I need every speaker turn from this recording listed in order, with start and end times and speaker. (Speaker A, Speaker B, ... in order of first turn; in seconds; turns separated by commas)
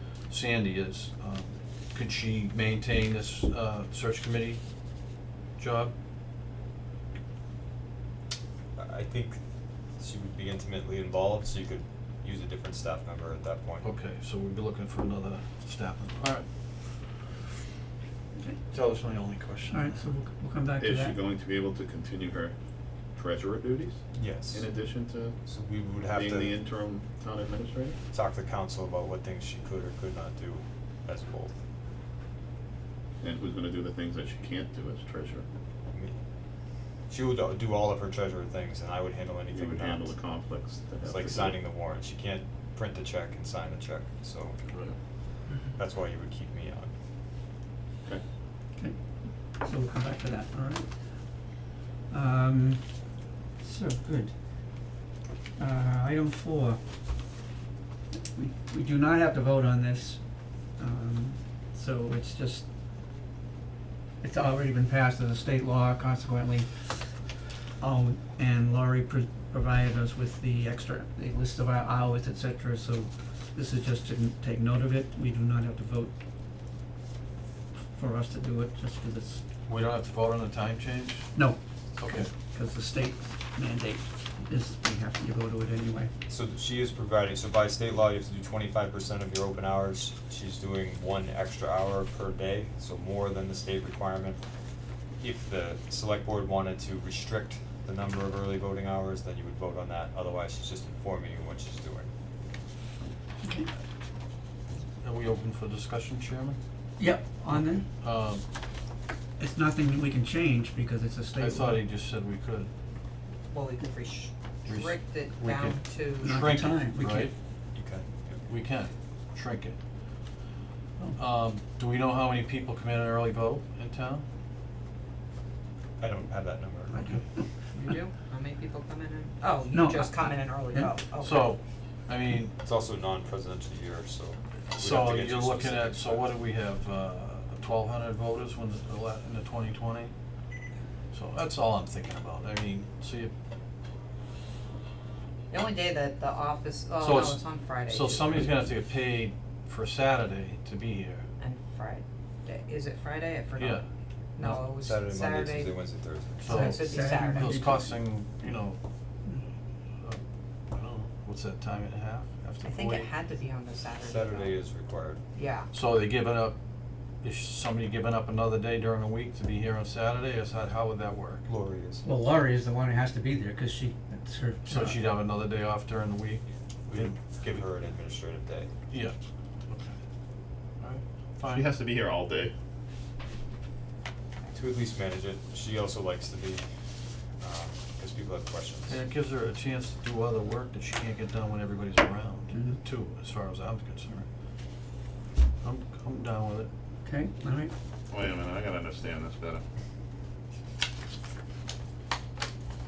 Speaker A: 0.3-4.6, Speaker A: 5.6-5.9, Speaker B: 8.8-9.4, Speaker B: 10.0-13.9, Speaker A: 13.8-16.5, Speaker A: 18.7-20.0, Speaker C: 19.7-21.2, Speaker D: 20.8-22.5, Speaker D: 23.1-25.4, Speaker B: 24.1-24.9, Speaker B: 25.4-26.6, Speaker D: 26.1-28.0, Speaker B: 28.1-31.6, Speaker D: 33.2-35.5, Speaker B: 35.9-36.2, Speaker B: 37.1-40.2, Speaker D: 39.5-41.6, Speaker B: 41.0-44.6, Speaker B: 45.6-46.9, Speaker C: 48.8-55.0, Speaker C: 55.6-56.8, Speaker C: 58.2-62.7, Speaker C: 64.2-67.2, Speaker C: 67.8-76.1, Speaker C: 77.9-79.4, Speaker A: 79.7-81.3, Speaker C: 81.4-86.1, Speaker A: 82.0-82.3, Speaker B: 86.3-94.4, Speaker B: 95.2-102.1, Speaker C: 103.4-103.7, Speaker A: 105.0-106.6, Speaker C: 107.0-107.9, Speaker A: 107.5-108.4, Speaker C: 109.4-111.8, Speaker A: 111.4-112.7, Speaker E: 113.5-116.4, Speaker A: 114.7-117.3, Speaker C: 116.2-117.3, Speaker B: 117.7-118.4, Speaker A: 118.5-119.8, Speaker A: 121.2-124.2, Speaker B: 126.0-127.2, Speaker C: 126.9-127.4, Speaker E: 127.7-131.6, Speaker C: 129.7-130.9, Speaker A: 131.2-132.5, Speaker B: 132.6-136.3, Speaker A: 134.8-140.1, Speaker A: 141.1-143.3, Speaker E: 145.5-148.6, Speaker A: 147.0-151.3, Speaker E: 151.4-153.8, Speaker A: 153.6-153.9, Speaker E: 154.3-155.7, Speaker B: 154.4-156.5, Speaker A: 156.4-158.8, Speaker E: 156.5-157.8, Speaker C: 156.5-157.8, Speaker A: 160.7-163.1, Speaker E: 162.6-164.6, Speaker B: 164.0-165.2, Speaker E: 165.3-165.7, Speaker A: 165.7-166.6, Speaker A: 167.2-171.5, Speaker B: 171.5-172.1, Speaker C: 172.0-175.0, Speaker A: 174.7-177.6, Speaker B: 176.9-178.7, Speaker A: 178.9-179.2, Speaker A: 179.7-180.0, Speaker A: 180.8-181.7, Speaker D: 181.4-182.5, Speaker B: 184.5-186.6, Speaker B: 187.4-189.0, Speaker A: 188.9-194.3, Speaker C: 192.5-192.8, Speaker A: 195.6-196.7, Speaker C: 197.1-197.7, Speaker D: 198.1-199.6